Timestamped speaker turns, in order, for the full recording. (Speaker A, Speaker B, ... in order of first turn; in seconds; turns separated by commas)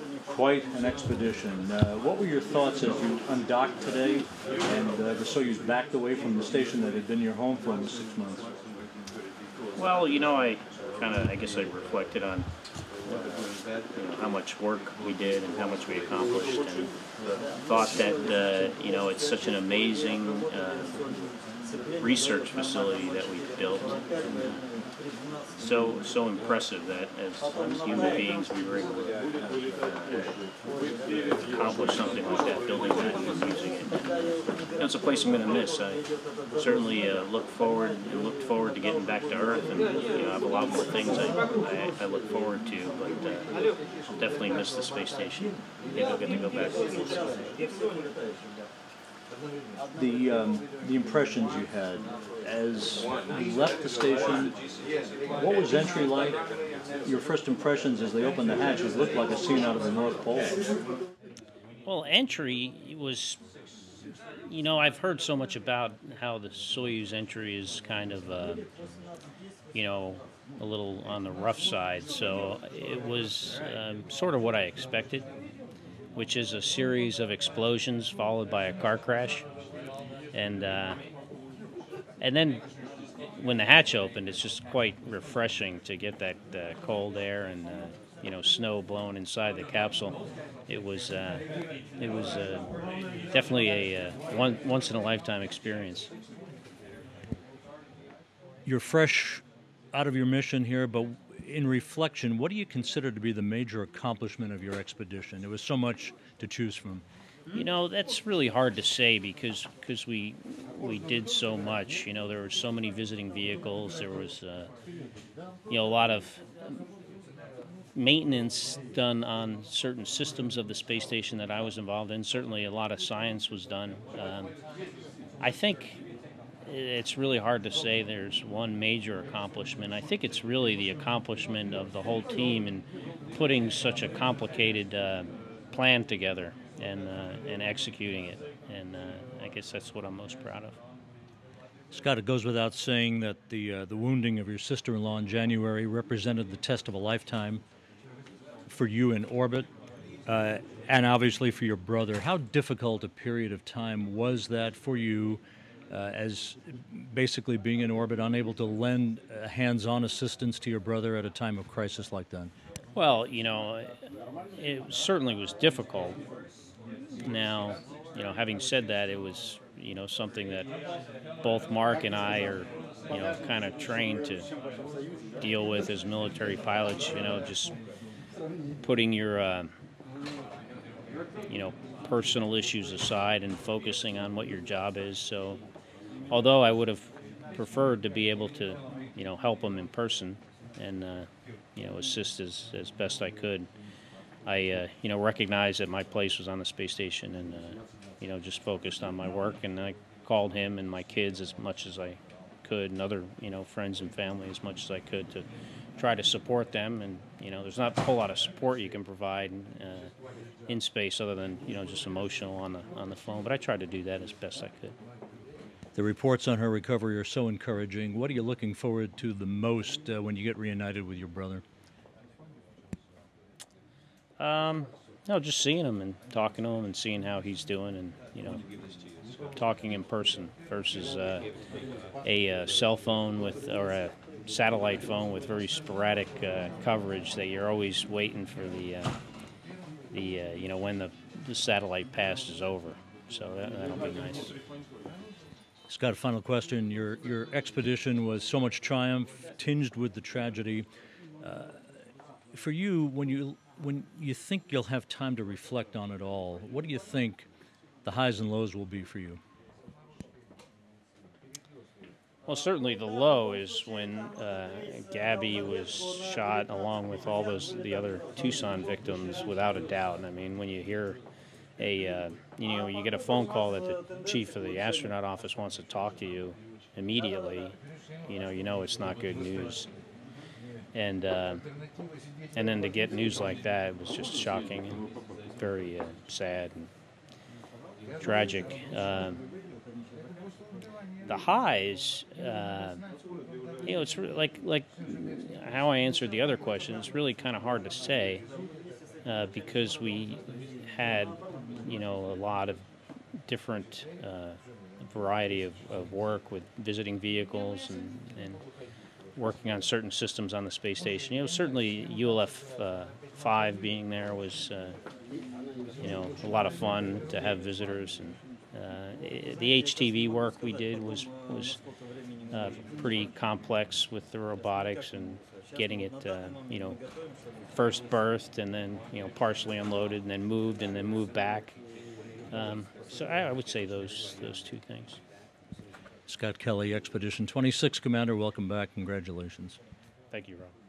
Speaker A: 0.3-8.5, Speaker B: 9.8-12.5, Speaker B: 13.1-16.9, Speaker B: 17.6-21.0, Speaker B: 22.0-24.6, Speaker B: 25.6-29.1, Speaker B: 29.8-30.3, Speaker B: 31.6-34.1, Speaker B: 34.8-36.0, Speaker B: 36.6-43.5, Speaker B: 44.2-47.3, Speaker A: 50.0-54.5, Speaker A: 55.3-56.4, Speaker A: 57.0-60.5, Speaker B: 61.9-63.4, Speaker B: 64.5-68.6, Speaker B: 69.7-75.3, Speaker B: 76.1-79.5, Speaker B: 80.3-81.0, Speaker B: 82.2-82.6, Speaker B: 83.4-90.2, Speaker B: 90.7-91.4, Speaker B: 92.0-92.7, Speaker B: 93.3-96.1, Speaker A: 98.7-107.0, Speaker B: 107.5-114.7, Speaker B: 115.7-116.8, Speaker B: 117.9-124.5, Speaker B: 125.4-126.0, Speaker B: 126.6-140.8, Speaker A: 141.9-147.6, Speaker A: 148.7-149.7, Speaker A: 150.3-162.5, Speaker B: 162.9-163.9, Speaker B: 164.6-166.2, Speaker B: 167.2-170.7, Speaker B: 171.4-174.5, Speaker B: 175.4-177.7, Speaker B: 178.8-179.7, Speaker B: 181.5-185.6, Speaker B: 186.3-193.7, Speaker B: 194.4-205.4, Speaker B: 206.0-210.1, Speaker B: 210.7-214.9, Speaker A: 215.9-221.6, Speaker B: 224.4-228.6, Speaker B: 229.5-231.5, Speaker B: 232.2-239.1, Speaker B: 240.1-244.5, Speaker A: 245.9-250.8, Speaker A: 251.4-251.8, Speaker A: 252.5-257.5, Speaker A: 258.0-259.4, Speaker B: 262.5-271.2, Speaker B: 271.8-277.8, Speaker B: 278.3-279.9, Speaker B: 280.9-281.6, Speaker B: 282.5-285.0, Speaker B: 285.6-286.9, Speaker B: 288.2-289.4, Speaker B: 291.3-293.0, Speaker B: 293.8-298.4, Speaker B: 299.2-302.8, Speaker B: 303.5-308.6, Speaker B: 309.4-315.0, Speaker B: 316.0-321.8, Speaker B: 322.5-327.0, Speaker B: 327.7-331.8, Speaker B: 332.5-335.2, Speaker A: 336.3-339.8, Speaker B: 340.3-340.7